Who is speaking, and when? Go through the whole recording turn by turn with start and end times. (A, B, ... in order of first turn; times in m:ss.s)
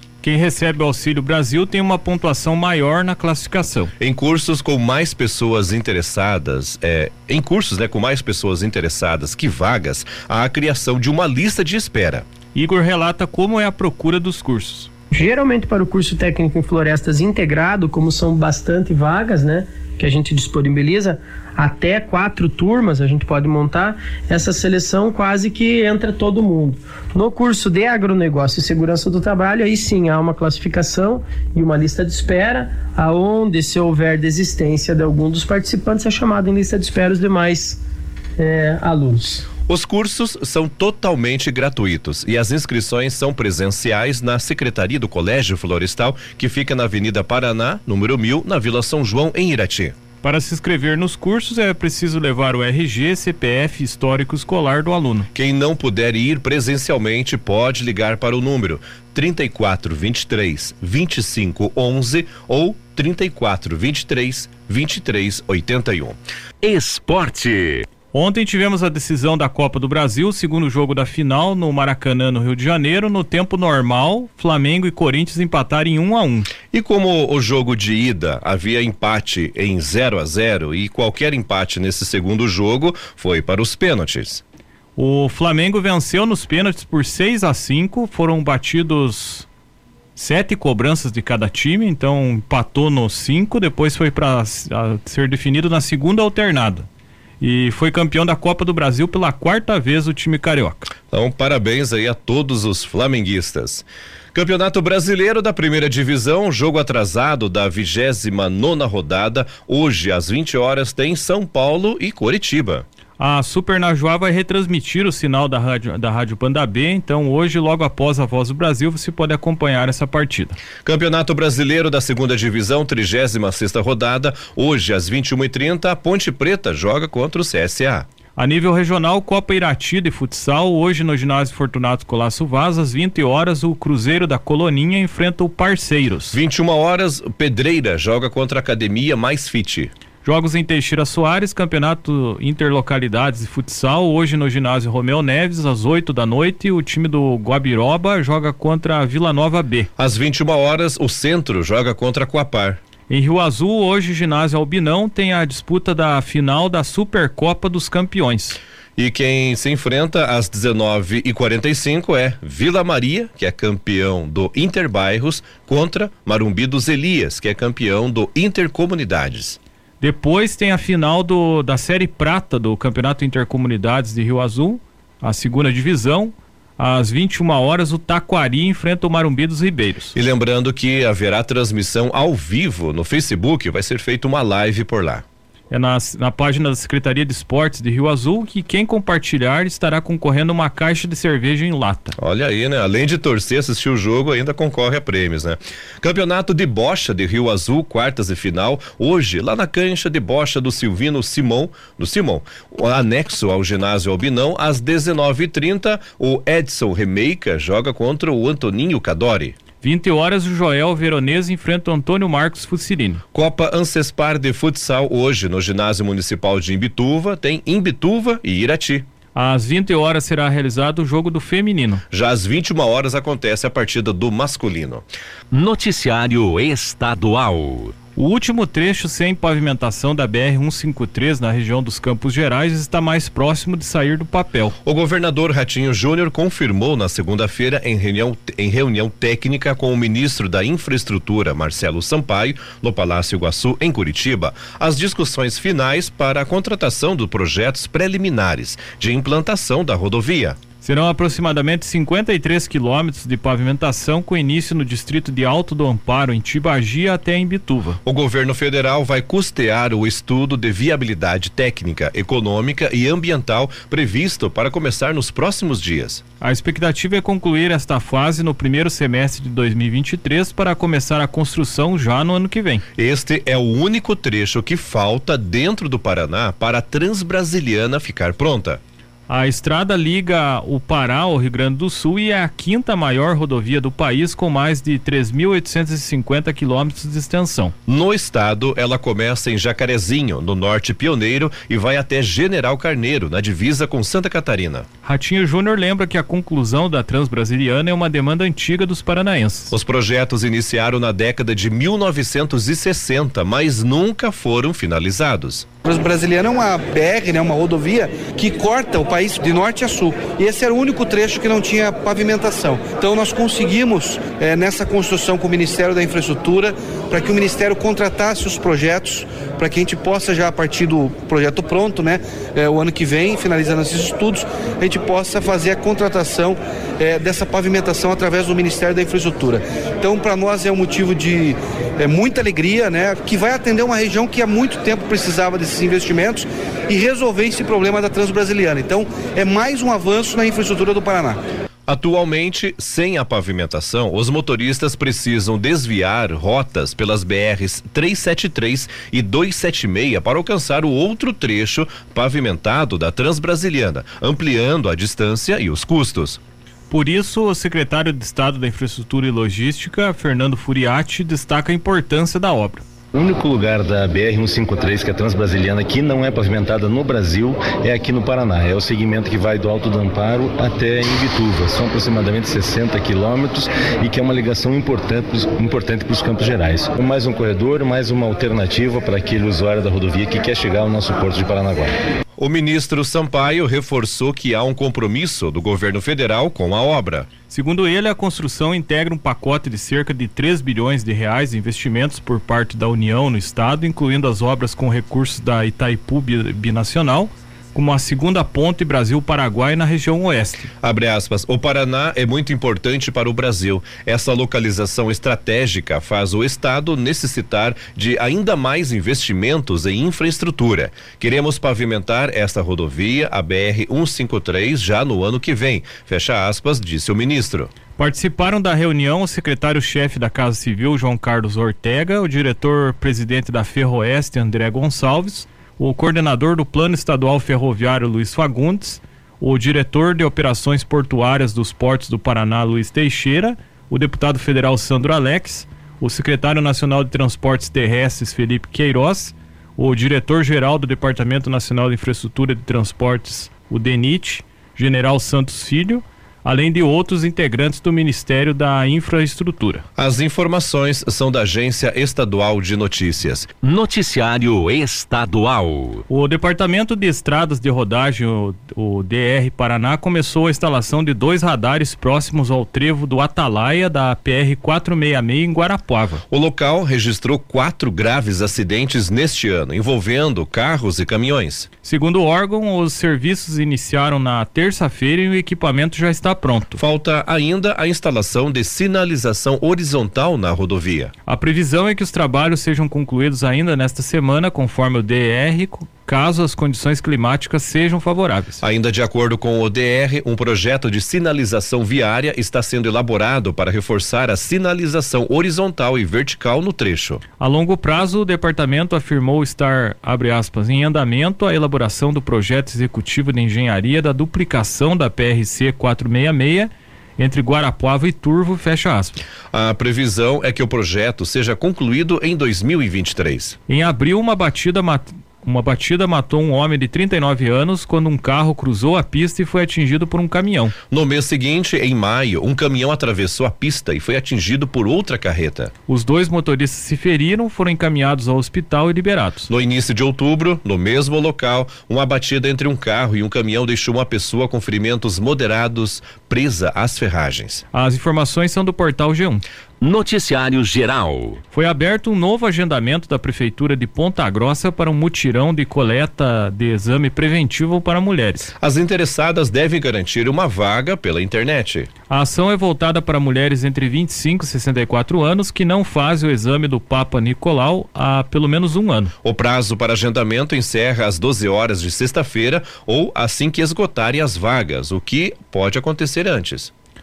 0:00.2-0:03.9 A
0:04.0-0:12.2 B
0:12.5-0:14.9 A
0:15.1-0:37.8 C
0:38.4-0:39.5 C
0:39.7-0:50.0 B
0:50.2-0:55.3 A
0:55.3-1:06.2 B
1:06.6-1:07.9 D
1:08.1-1:16.5 A
1:16.7-1:24.4 B
1:25.0-1:29.5 A
1:30.2-1:36.9 A
1:37.4-1:40.9 A
1:41.1-1:52.9 B
1:53.2-2:00.6 A
2:00.8-2:08.1 B
2:08.4-2:16.4 A
2:16.3-2:19.9 B
2:20.2-2:29.9 A
2:30.0-2:32.8 B
2:33.1-2:38.6 A
2:39.0-2:49.6 B
2:50.0-3:00.1 A
3:00.2-3:05.2 B
3:05.7-3:12.2 A
3:12.2-3:29.6 B
3:29.8-3:33.2 A
3:33.3-3:39.1 B
3:39.4-3:42.0 A
3:42.1-3:45.1 B
3:45.5-3:48.0 D
3:48.1-3:54.8 A
3:54.8-4:10.6 B
4:10.8-4:18.0 A
4:18.0-4:26.2 B
4:26.4-4:32.8 A
4:33.0-4:38.8 B
4:39.3-4:47.7 A
4:47.9-4:54.9 B
4:55.0-4:59.7 A
4:59.7-5:05.7 B
5:05.8-5:41.4 E
5:41.9-5:56.4 B
5:56.9-6:02.8 A
6:03.1-6:22.0 F
6:22.4-6:27.3 B
6:27.5-6:40.7 A
6:40.8-6:57.7 B
6:58.0-7:29.8 A
7:30.0-7:33.5 B
7:33.6-7:36.0 D
7:36.1-7:46.2 A
7:46.3-7:51.7 B
7:51.8-7:56.8 A
7:56.8-8:01.1 B
8:01.3-8:08.6 A
8:08.6-8:17.2 B
8:17.4-8:29.2 A
8:29.5-8:33.6 B
8:33.7-8:40.7 A
8:40.9-8:45.7 B
8:45.9-8:49.5 A
8:49.5-8:57.6 B
8:57.7-8:59.4 A
8:59.8-9:01.4 D
9:01.5-9:08.5 A
9:08.6-9:11.9 B
9:12.1-9:19.1 A
9:19.2-9:26.7 B